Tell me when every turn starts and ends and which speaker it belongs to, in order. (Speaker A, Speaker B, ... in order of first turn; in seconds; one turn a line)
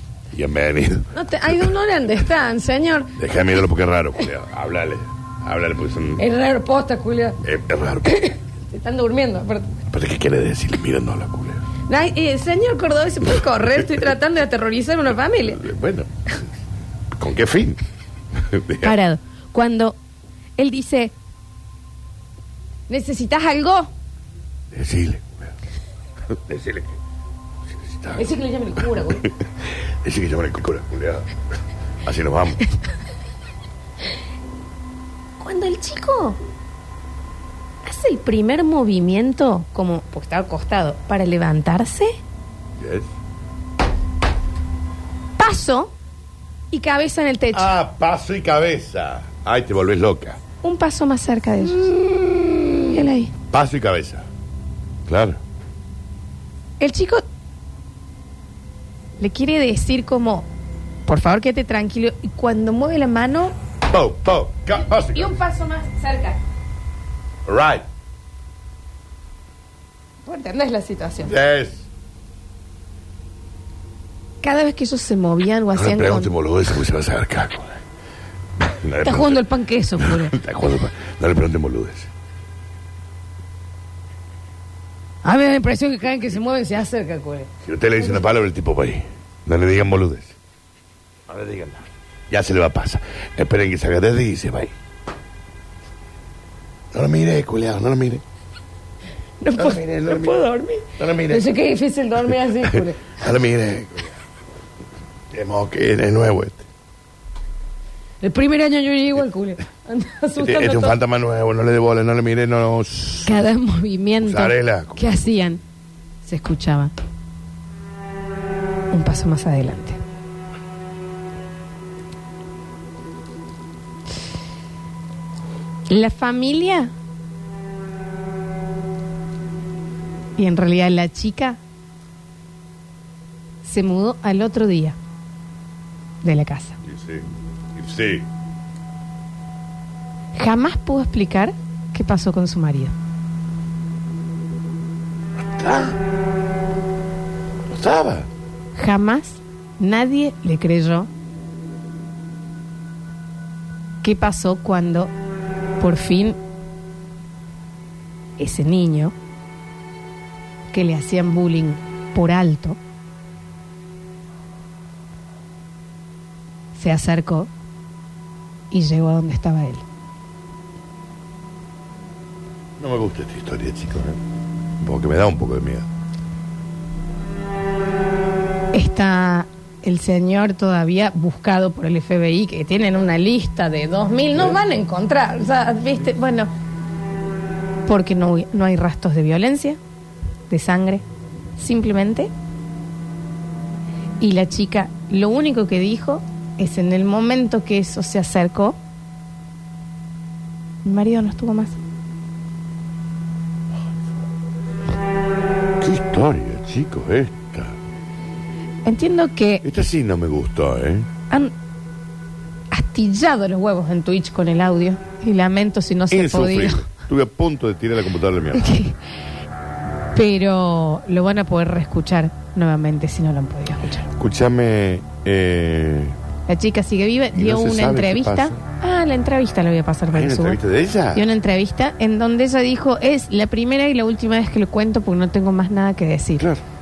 Speaker A: 0.3-1.7
Speaker B: 1.1-3.2
Speaker A: 3.1-6.2
Speaker B: 6.2-7.4
Speaker A: 7.4-8.3
Speaker B: 8.0-9.8
Speaker A: 9.9-11.6
Speaker B: 11.9-15.6
Speaker A: 15.4-16.1
Speaker A: 17.1-17.8
Speaker A: 18.3-18.9
Speaker B: 18.8-20.0
Speaker B: 20.6-21.1
Speaker B: 22.9-23.9
Speaker A: 24.7-25.5
Speaker A: 26.2-27.0
Speaker A: 27.7-28.3
Speaker B: 28.1-29.3
Speaker A: 28.8-31.3
Speaker A: 32.0-32.6
Speaker B: 35.4-36.4
Speaker B: 37.8-42.1
Speaker A: 42.8-43.1
Speaker B: 45.4-45.9
Speaker B: 46.7-47.7
Speaker A: 47.5-50.4
Speaker B: 50.6-52.0
Speaker A: 52.0-52.8
Speaker B: 52.9-53.3
Speaker A: 53.5-54.3
Speaker A: 55.0-55.4
Speaker B: 56.8-57.2
Speaker B: 59.2-60.5
Speaker B: 61.1-63.5
Speaker A: 63.9-65.3
Speaker B: 65.1-66.4
Speaker A: 67.5-67.8
Speaker B: 70.2-71.3
Speaker A: 71.2-71.8
Speaker B: 74.4-76.3
Speaker A: 75.7-77.8
Speaker A: 78.6-79.4
Speaker B: 79.0-80.4
Speaker A: 80.0-82.1
Speaker B: 85.2-88.3
Speaker A: 87.6-90.4
Speaker A: 91.3-94.7
Speaker A: 96.9-98.2
Speaker B: 99.4-103.2
Speaker A: 99.5-100.4
Speaker A: 101.0-101.5
Speaker A: 102.6-104.2
Speaker A: 105.3-106.7
Speaker B: 108.2-110.9
Speaker A: 110.4-113.5
Speaker B: 113.2-115.6
Speaker A: 114.2-115.2
Speaker B: 116.2-116.9
Speaker B: 118.9-120.0
Speaker B: 125.9-126.9
Speaker B: 130.4-131.6
Speaker B: 133.6-134.9
Speaker B: 136.2-136.8
Speaker A: 136.8-138.3
Speaker B: 140.3-142.9
Speaker A: 145.4-146.0
Speaker A: 147.7-148.3
Speaker B: 148.7-151.1
Speaker B: 154.0-155.1
Speaker B: 155.8-156.4
Speaker B: 158.4-159.1
Speaker B: 160.7-162.8
Speaker B: 166.7-167.5
Speaker B: 168.7-169.8
Speaker A: 172.8-174.2
Speaker A: 174.8-175.9
Speaker B: 178.7-186.5
Speaker B: 187.9-189.8
Speaker B: 190.5-191.0
Speaker B: 191.6-192.3
Speaker B: 194.2-198.8
Speaker B: 200.8-201.8
Speaker A: 205.8-207.8
Speaker B: 208.8-209.6
Speaker A: 209.6-211.1
Speaker B: 212.7-216.8
Speaker A: 216.1-218.7
Speaker B: 218.5-219.0
Speaker B: 220.1-224.1
Speaker A: 224.1-226.2
Speaker B: 226.5-230.6
Speaker A: 227.3-228.6
Speaker A: 230.1-231.2
Speaker B: 231.1-236.4